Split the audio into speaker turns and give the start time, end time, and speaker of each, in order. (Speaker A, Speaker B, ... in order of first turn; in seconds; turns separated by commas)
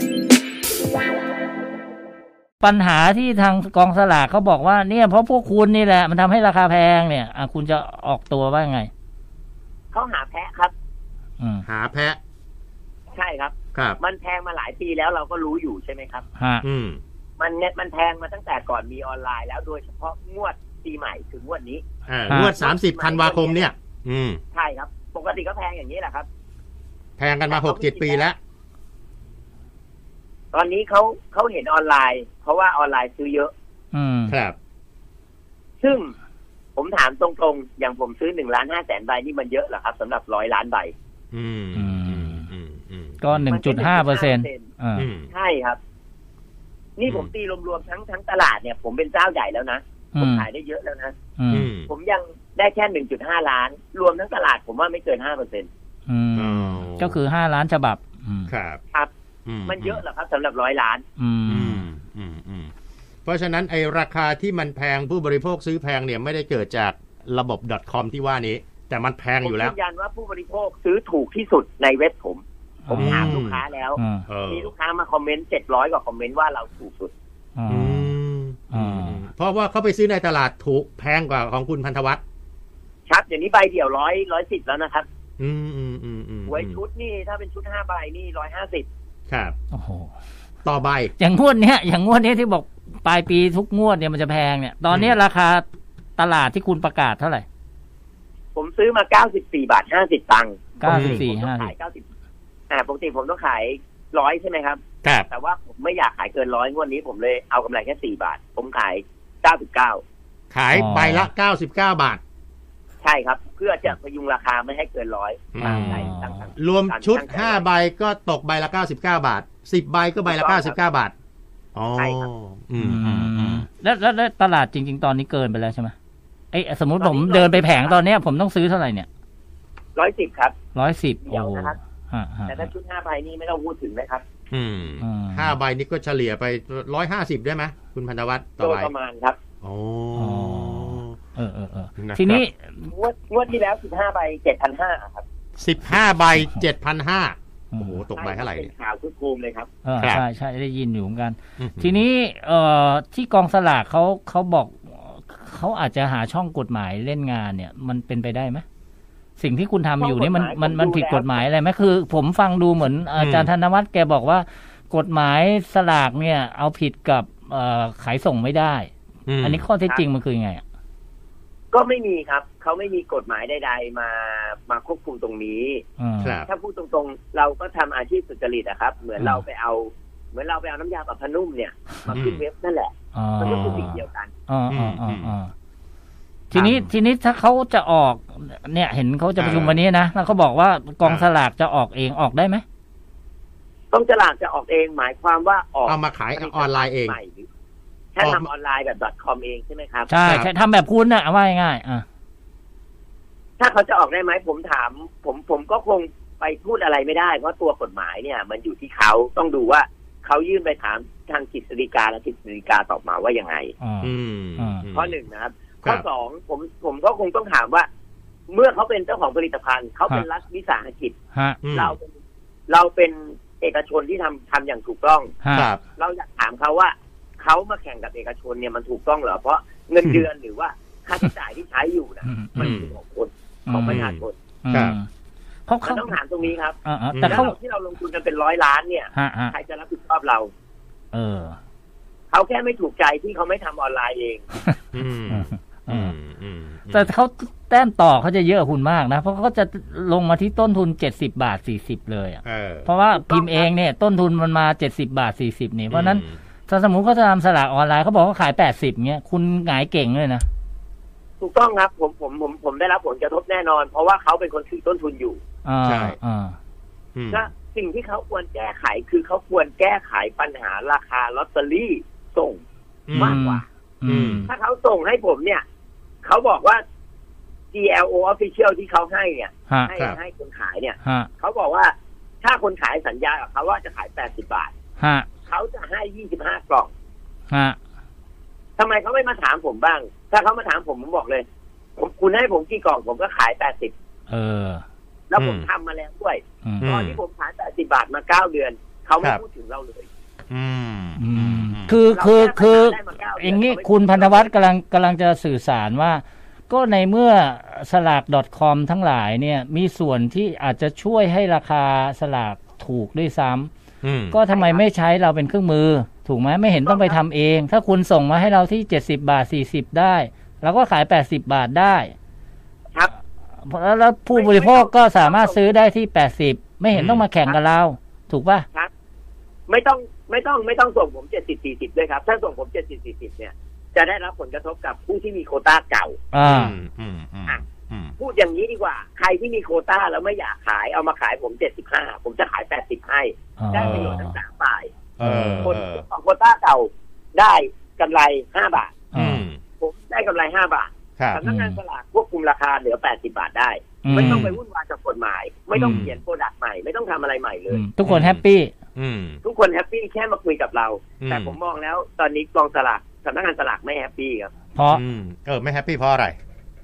Speaker A: 2.6-8.9, Speaker B: 9.9-10.7, Speaker A: 11.4-11.6, Speaker C: 11.7-12.2, Speaker B: 13.1-16.2, Speaker C: 13.7-14.0, Speaker A: 16.4-16.6, Speaker C: 16.6-17.0, Speaker B: 17.4-23.7, Speaker C: 22.1-24.4, Speaker A: 22.3-22.5, Speaker B: 24.5-26.3, Speaker C: 27.2-28.4, Speaker B: 27.5-28.2, Speaker B: 30.5-33.5, Speaker A: 33.9-34.3, Speaker C: 34.3-34.5, Speaker B: 35.8-36.1, Speaker B: 36.8-40.9, Speaker C: 41.3-43.5, Speaker A: 41.7-42.5, Speaker A: 43.2-45.1, Speaker B: 43.5-44.7, Speaker C: 45.0-45.3, Speaker B: 45.3-45.8, Speaker B: 47.0-51.1, Speaker C: 47.0-47.3, Speaker A: 50.1-50.5, Speaker A: 51.4-51.7, Speaker C: 51.5-51.9, Speaker B: 51.9-55.7, Speaker A: 56.1-58.5, Speaker C: 56.4-57.2, Speaker C: 58.5-58.8, Speaker C: 59.5-60.0, Speaker B: 59.6-61.0, Speaker A: 61.2-61.9, Speaker C: 61.5-62.7, Speaker C: 63.2-69.7, Speaker B: 69.4-77.1, Speaker A: 72.8-73.4, Speaker C: 73.0-73.6, Speaker A: 74.0-74.2, Speaker C: 74.3-74.7, Speaker A: 77.5-78.1, Speaker C: 77.7-82.2, Speaker A: 78.7-79.3, Speaker B: 83.1-85.1, Speaker C: 85.4-86.8, Speaker B: 86.5-88.9, Speaker C: 89.3-89.5, Speaker A: 89.7-90.1, Speaker C: 90.6-91.1, Speaker A: 91.2-95.6, Speaker A: 96.2-97.4, Speaker B: 98.5-102.0, Speaker A: 100.8-101.7, Speaker C: 100.8-101.2, Speaker B: 102.7-110.0, Speaker C: 110.5-112.2, Speaker A: 110.7-111.3, Speaker B: 113.0-117.7, Speaker C: 115.5-121.1, Speaker A: 115.6-116.4, Speaker B: 120.2-120.8, Speaker C: 121.7-123.7, Speaker B: 122.0-122.3, Speaker A: 122.8-125.9, Speaker A: 126.5-129.1, Speaker B: 127.0-128.0, Speaker B: 129.9-130.6, Speaker A: 130.7-132.7, Speaker B: 131.2-131.8, Speaker B: 132.5-134.2, Speaker C: 134.5-138.9, Speaker A: 135.0-135.6, Speaker B: 138.6-139.4, Speaker C: 139.6-141.1, Speaker A: 140.2-142.9, Speaker C: 142.0-142.4, Speaker B: 142.9-145.2, Speaker C: 145.6-148.7, Speaker A: 146.3-146.6, Speaker A: 147.7-148.0, Speaker B: 148.2-149.7, Speaker A: 149.8-158.6, Speaker C: 151.6-152.0, Speaker A: 159.4-170.6, Speaker B: 160.0-161.4, Speaker C: 163.2-163.5, Speaker C: 169.3-169.6, Speaker B: 171.7-175.8, Speaker A: 176.0-176.4, Speaker C: 176.2-176.5, Speaker B: 176.4-184.3, Speaker A: 179.2-179.4, Speaker C: 182.1-182.4, Speaker A: 183.1-184.0, Speaker C: 183.4-183.9, Speaker A: 184.5-185.5, Speaker C: 184.7-185.3, Speaker A: 186.5-192.6, Speaker C: 186.5-186.9, Speaker C: 189.4-189.8, Speaker C: 191.0-191.3, Speaker B: 193.9-197.5, Speaker C: 195.8-197.2, Speaker B: 198.1-200.1, Speaker C: 198.2-198.5, Speaker A: 200.1-202.0, Speaker B: 203.6-213.7, Speaker A: 213.8-214.8, Speaker C: 214.0-215.2, Speaker B: 214.9-217.9, Speaker B: 218.5-221.1, Speaker A: 221.3-221.6, Speaker C: 221.6-221.9, Speaker B: 221.7-222.1, Speaker B: 222.7-225.3, Speaker A: 225.4-225.7, Speaker C: 225.5-225.8, Speaker B: 225.9-234.3, Speaker A: 232.2-232.8, Speaker C: 232.6-232.9, Speaker A: 233.7-234.0, Speaker C: 233.8-234.9, Speaker A: 234.6-235.1, Speaker A: 235.7-236.1, Speaker B: 235.8-240.5, Speaker A: 236.8-237.6, Speaker C: 237.1-237.5, Speaker A: 239.1-239.5, Speaker A: 241.1-241.6, Speaker B: 242.3-244.4, Speaker C: 244.9-247.1, Speaker A: 245.3-246.1, Speaker A: 246.9-260.4, Speaker C: 252.4-252.9, Speaker B: 253.1-253.7, Speaker C: 255.9-256.3, Speaker B: 261.4-265.4, Speaker A: 265.6-266.5, Speaker C: 265.9-266.1, Speaker C: 267.1-267.5, Speaker B: 267.3-272.6, Speaker C: 273.1-273.4, Speaker A: 273.1-274.5, Speaker B: 273.1-273.6, Speaker C: 274.1-274.5, Speaker B: 274.4-275.6, Speaker B: 276.2-276.8, Speaker B: 277.7-284.7, Speaker A: 281.0-281.3, Speaker A: 285.0-285.3, Speaker B: 285.4-286.9, Speaker A: 287.5-287.8, Speaker B: 288.8-291.4, Speaker B: 292.0-293.9, Speaker A: 294.3-294.8, Speaker B: 295.3-300.1, Speaker C: 295.3-295.7, Speaker C: 296.8-297.2, Speaker C: 300.5-301.9, Speaker A: 301.2-313.7, Speaker B: 302.1-304.5, Speaker C: 314.0-314.4, Speaker A: 314.3-322.1, Speaker B: 314.5-314.8, Speaker B: 316.8-317.2, Speaker A: 323.6-328.6, Speaker B: 324.3-325.7, Speaker C: 326.9-327.2, Speaker B: 329.7-336.2, Speaker A: 336.3-336.8, Speaker C: 336.4-338.1, Speaker B: 338.2-344.9, Speaker A: 343.6-344.3, Speaker C: 343.8-344.1, Speaker C: 345.2-346.0, Speaker A: 345.2-345.7, Speaker B: 345.6-349.0, Speaker A: 349.1-349.4, Speaker C: 349.1-349.6, Speaker B: 349.8-357.8, Speaker A: 351.4-351.8, Speaker A: 354.0-354.5, Speaker C: 354.1-354.5, Speaker C: 355.7-356.1, Speaker A: 355.8-356.1, Speaker A: 357.7-358.7, Speaker C: 358.0-358.4, Speaker C: 358.9-359.4, Speaker B: 359.4-364.5, Speaker C: 361.2-361.6, Speaker A: 364.7-365.0, Speaker C: 364.9-366.4